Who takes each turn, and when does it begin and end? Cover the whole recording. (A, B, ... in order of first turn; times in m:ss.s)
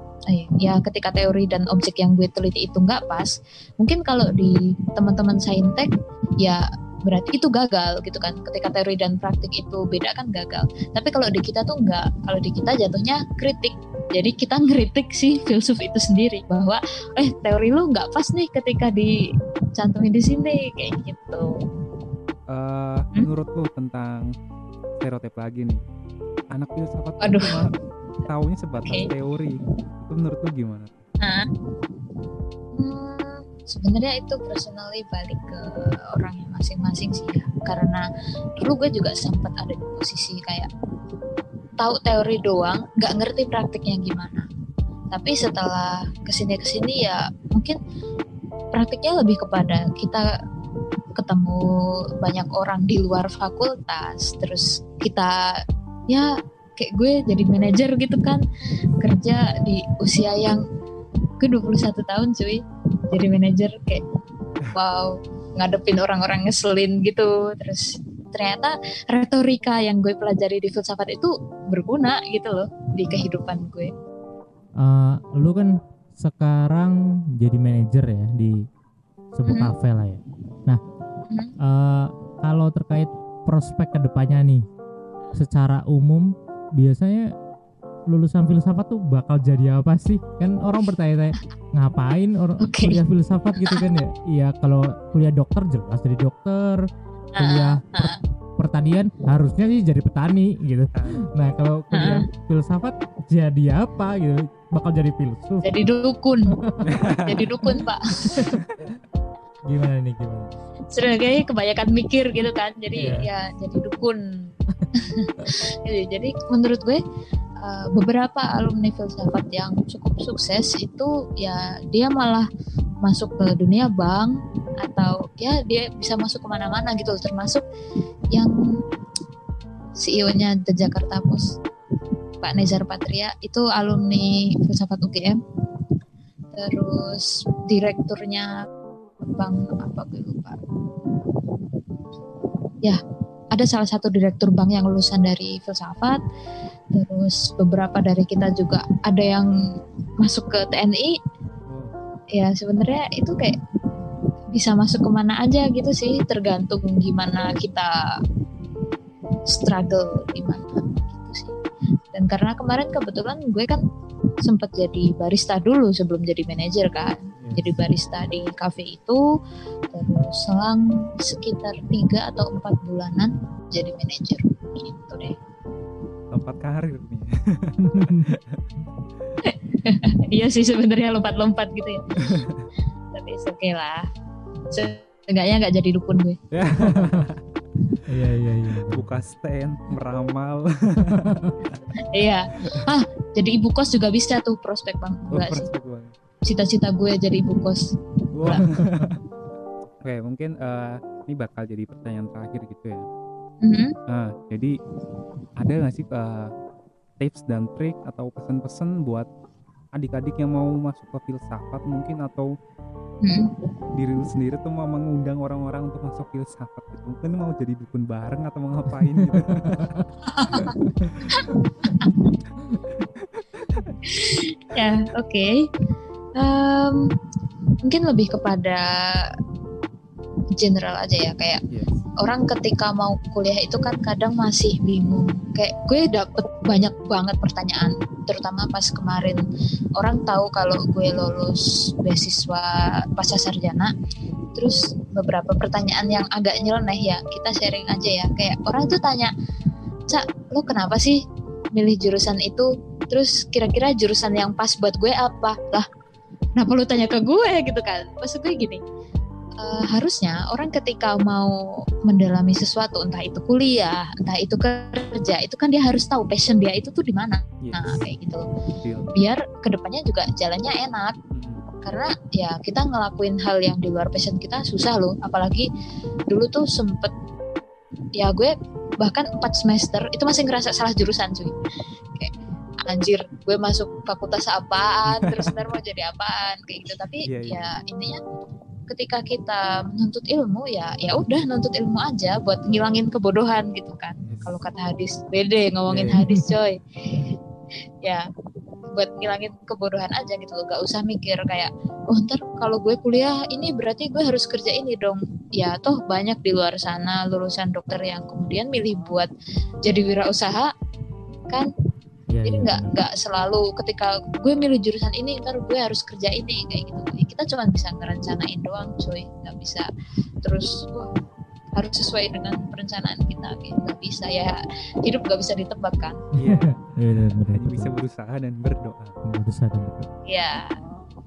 0:00.3-0:19.1 A
0:19.8-0:21.5 A
0:22.5-0:24.3 B
0:25.0-0:25.8 B
0:26.5-0:27.7 B
0:27.2-0:27.6 A
0:28.3-0:31.0 B
0:28.8-0:29.1 A
0:31.2-0:31.5 A
0:32.8-0:38.0 A
0:38.6-0:40.7 A
0:41.8-0:44.5 A
0:45.1-0:47.8 A
0:48.7-0:50.3 A
0:51.1-0:51.6 A
0:52.2-0:58.4 A
0:59.0-1:00.6 A
1:01.4-1:04.0 A
1:04.7-1:13.9 A
1:14.8-1:18.6 C
1:19.3-1:20.8 C
1:19.4-1:19.7 A
1:21.3-1:21.6 A
1:21.6-1:24.6 C
1:25.3-1:27.3 C
1:28.1-1:36.9 C
1:32.6-1:33.0 A
1:33.6-1:33.8 A
1:37.4-1:38.2 A
1:37.4-1:45.7 C
1:40.9-1:41.3 B
1:41.9-1:42.2 A
1:45.6-1:46.6 A
1:46.5-1:48.6 C
1:46.9-1:47.4 B
1:47.1-1:48.5 A
1:48.6-1:48.8 B
1:49.6-1:50.6 C
1:50.9-1:54.2 A
1:53.0-1:53.2 C
1:55.0-1:57.0 A
1:57.6-2:02.5 A
2:03.0-2:07.6 A
2:10.0-2:11.5 A
2:12.4-2:15.4 A
2:16.5-2:18.5 A
2:19.2-2:20.6 A
2:23.5-2:26.2 A
2:26.9-2:29.5 A
2:30.2-2:31.2 A
2:31.7-2:32.0 B
2:32.3-2:33.6 A
2:34.5-2:37.9 A
2:39.5-2:41.6 A
2:42.1-2:43.8 A
2:44.4-2:49.2 A
2:47.4-2:47.7 B
2:49.9-2:55.4 A
2:56.3-2:58.6 B
2:57.8-2:58.3 C
2:59.4-3:02.4 A
3:02.2-3:02.7 B
3:03.1-3:04.1 A
3:04.7-3:06.4 A
3:06.5-3:07.4 B
3:06.9-3:07.3 C
3:08.1-3:09.2 C
3:08.9-3:11.8 B
3:11.1-3:11.6 C
3:12.0-3:15.7 A
3:15.3-3:16.1 B
3:16.5-3:17.9 A
3:18.4-3:19.2 B
3:18.5-3:19.1 C
3:20.0-3:23.1 B
3:23.6-3:24.0 A
3:24.1-3:24.8 B
3:25.6-3:26.5 B
3:27.2-3:29.3 B
3:30.0-3:32.5 B
3:33.2-3:33.5 A
3:34.0-3:40.0 B
3:39.2-3:40.9 C
3:40.3-3:42.4 A
3:43.0-3:43.9 B
3:44.1-3:45.7 A
3:46.4-3:47.1 A
3:47.8-3:49.4 A
3:50.6-3:51.6 A
3:51.7-3:52.0 B
3:52.2-3:59.4 A
4:00.0-4:03.9 A
4:04.6-4:09.3 A
4:10.1-4:11.2 A
4:11.7-4:15.9 A
4:16.6-4:18.8 A
4:19.6-4:28.5 A
4:27.6-4:28.0 B
4:28.8-4:29.1 B
4:29.1-4:31.2 A
4:31.3-4:31.7 B
4:31.8-4:35.7 A
4:36.3-4:37.1 A
4:38.2-4:41.6 A
4:42.8-4:48.2 A
4:45.1-4:45.6 B
4:47.3-4:47.7 B
4:48.9-4:57.2 A
4:54.3-4:54.5 B
4:55.9-4:56.2 B
4:56.0-4:56.4 C
4:59.0-5:09.3 A
5:09.8-5:10.7 A
5:12.3-5:12.9 C
5:12.4-5:19.9 A
5:20.4-5:21.1 A
5:21.7-5:26.2 A
5:26.3-5:29.2 B
5:26.4-5:27.9 C
5:29.2-5:30.1 C
5:30.3-5:30.8 A